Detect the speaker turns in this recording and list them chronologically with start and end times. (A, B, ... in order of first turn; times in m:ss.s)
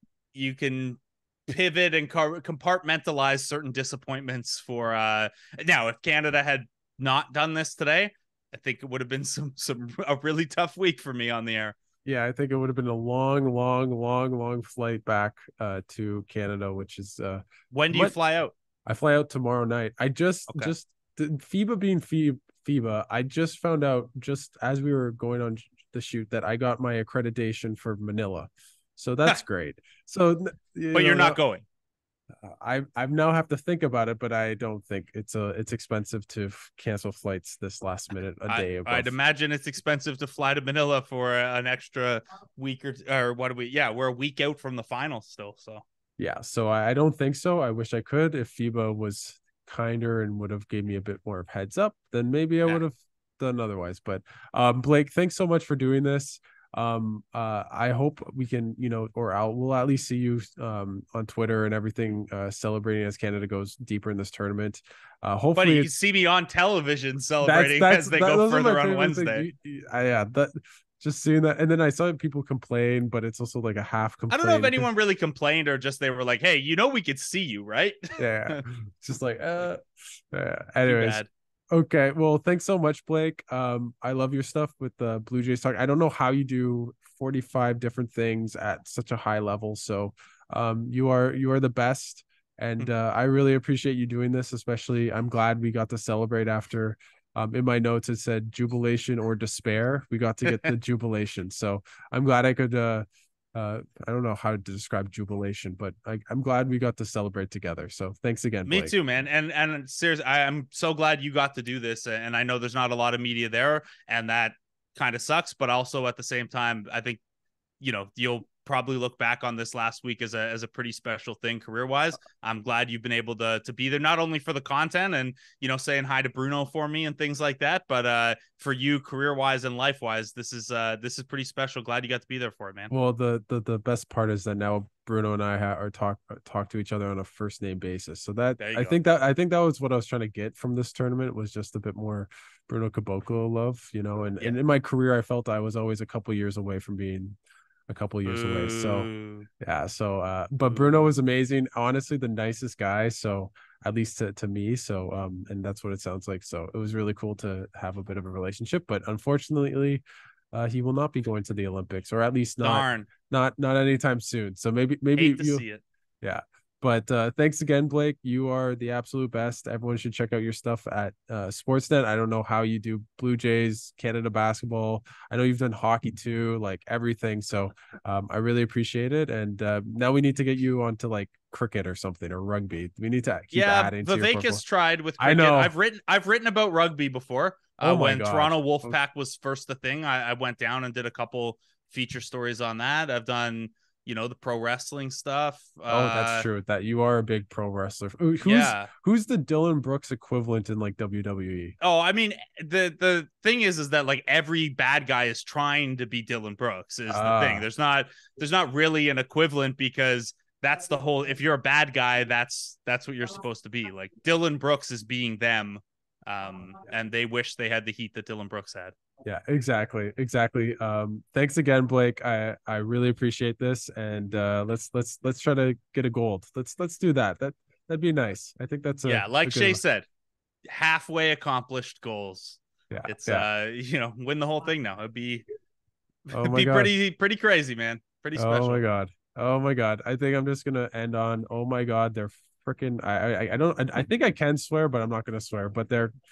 0:00.3-0:11.8 A
0:12.0-0:18.1 B
0:17.7-0:18.5 A
0:18.9-0:31.4 B
0:30.9-0:31.6 A
0:32.4-0:39.1 B
0:38.5-0:45.8 A
0:46.2-1:05.9 B
1:05.6-1:09.5 A
1:07.4-1:14.9 B
1:14.3-1:18.6 A
1:18.2-1:49.0 B
1:20.8-1:21.3 A
1:48.7-1:57.2 A
1:57.8-2:12.9 A
2:12.9-2:27.4 B
2:18.6-2:19.0 A
2:27.9-2:29.1 B
2:28.2-2:29.5 A
2:29.6-2:45.6 B
2:42.6-2:43.1 A
2:45.2-2:45.8 A
2:46.2-3:04.6 B
3:03.5-3:16.5 A
3:05.2-3:05.7 B
3:07.8-3:09.0 B
3:15.9-3:21.8 B
3:18.4-3:18.9 A
3:21.8-3:39.0 A
3:27.1-3:27.7 B
3:39.2-3:49.8 B
3:49.0-3:50.1 A
3:50.7-3:55.4 A
3:52.9-3:53.5 B
3:56.3-3:58.8 A
3:56.3-3:56.9 B
3:58.4-4:06.1 B